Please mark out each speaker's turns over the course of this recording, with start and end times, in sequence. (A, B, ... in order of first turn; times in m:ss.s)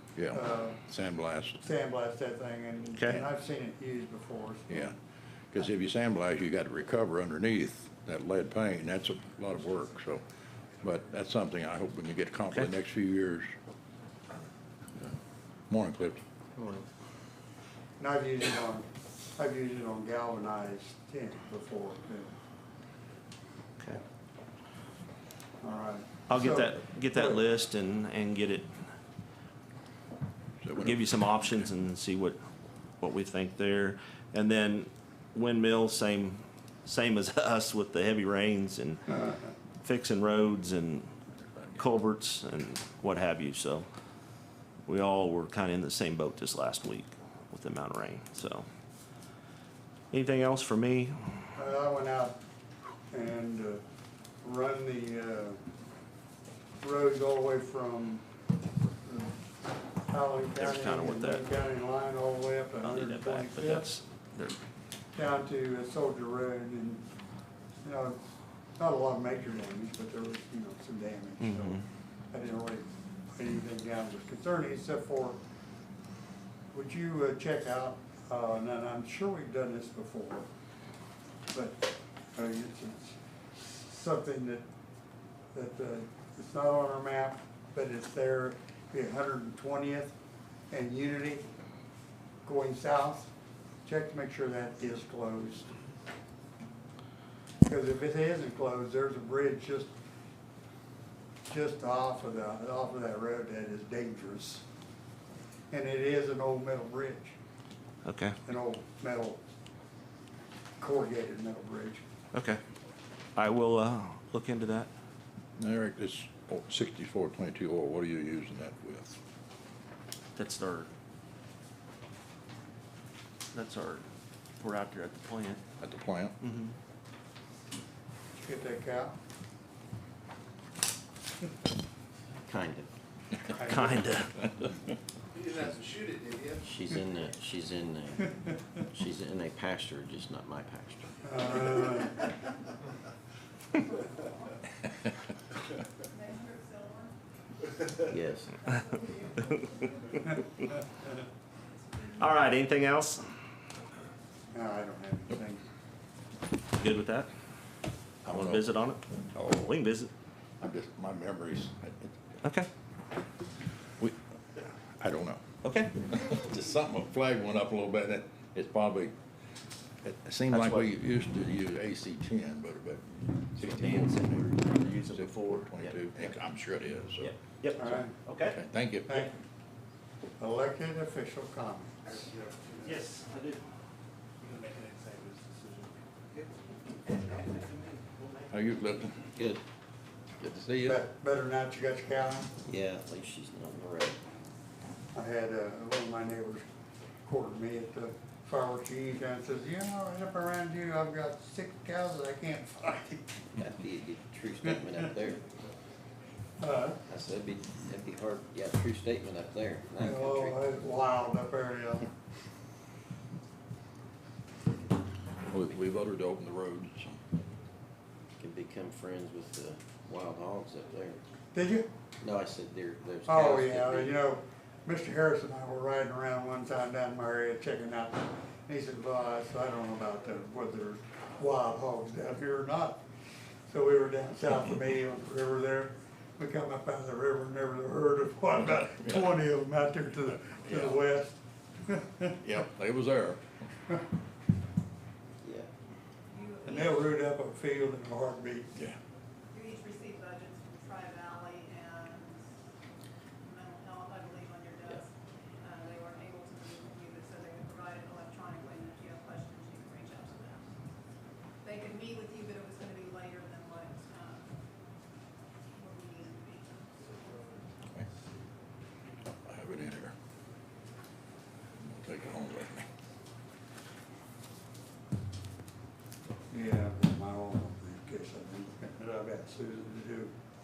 0:00.2-0:01.6 A
0:00.3-0:00.8 B
0:01.6-0:04.9 B
0:03.0-0:03.2 C
0:04.7-0:05.0 A
0:05.5-0:10.2 A
0:10.8-0:13.5 A
0:15.7-0:16.2 A
0:18.0-0:22.3 B
0:25.6-0:27.4 B
0:26.3-0:28.8 C
0:30.6-0:31.5 A
0:30.8-0:32.4 C
0:33.0-0:41.1 C
0:41.4-0:41.8 A
0:41.8-0:43.9 C
0:44.9-0:48.7 C
0:50.1-0:51.6 C
0:51.6-0:52.4 B
0:53.1-0:53.8 B
0:54.4-0:55.6 B
0:56.8-0:58.2 B
0:59.0-0:59.4 B
1:00.1-1:04.0 B
1:00.6-1:01.4 C
1:02.8-1:04.6 C
1:05.2-1:07.0 B
1:07.8-1:08.2 B
1:08.8-1:15.4 B
1:11.4-1:11.8 C
1:16.7-1:20.5 B
1:21.5-1:24.7 B
1:25.5-1:30.2 B
1:30.7-1:31.5 B
1:32.4-1:33.3 B
1:33.8-1:35.7 B
1:37.6-1:39.9 B
1:41.5-1:44.6 B
1:45.7-1:47.4 B
1:48.0-1:48.4 C
1:48.5-1:49.4 B
1:50.8-1:52.0 B
1:52.3-1:52.6 C
1:53.4-1:54.9 C
1:55.6-1:59.2 A
2:00.4-2:00.9 C
2:03.5-2:04.0 C
2:04.6-2:05.6 C
2:05.8-2:06.4 A
2:06.4-2:06.8 C
2:08.4-2:09.2 B
2:12.5-2:12.9 D
2:13.5-2:14.1 B
2:13.6-2:14.6 C
2:15.4-2:16.6 E
2:16.5-2:18.4 D
2:18.9-2:21.6 D
2:21.2-2:22.3 B
2:26.0-2:27.1 F
2:28.0-2:28.6 D
2:28.6-2:30.3 F
2:31.8-2:32.5 F
2:32.1-2:33.2 C
2:34.5-2:35.6 B
2:36.8-2:37.3 C
2:38.2-2:38.7 A
2:38.3-2:40.1 C
2:39.3-2:39.7 A
2:40.6-2:42.4 A
2:42.4-2:42.7 C
2:44.9-2:45.4 A
2:45.6-2:46.0 C
2:46.0-2:49.2 A
2:50.0-2:57.3 A
2:50.5-2:50.9 C
2:53.6-2:56.0 C
2:57.2-2:58.6 C
2:57.8-2:58.2 B
2:58.5-2:59.2 A
2:59.1-2:59.4 B
3:00.4-3:02.2 B
3:02.4-3:02.8 E
3:02.8-3:03.6 C
3:04.4-3:05.9 E
3:07.3-3:08.2 C
3:08.5-3:09.2 A
3:09.4-3:09.6 D
3:10.5-3:11.0 A
3:10.8-3:12.5 B
3:12.6-3:14.2 D
3:15.1-3:16.6 B
3:17.3-3:23.4 B
3:23.6-3:25.4 D
3:26.6-3:27.0 B
3:27.0-3:30.6 D
3:30.0-3:32.1 B
3:35.4-3:37.2 A
3:38.4-3:41.2 D
3:41.5-3:41.9 B
3:42.2-3:44.2 D
3:43.3-3:53.0 B
3:53.7-4:02.4 B
4:02.4-4:03.4 A
4:05.4-4:05.7 D
4:06.3-4:07.2 F
4:06.6-4:08.7 B
4:09.5-4:12.4 F
4:13.4-4:20.7 F
4:21.6-4:24.5 F
4:25.8-4:27.6 F
4:29.4-4:30.1 A
4:31.8-4:32.9 A
4:36.5-4:40.3 B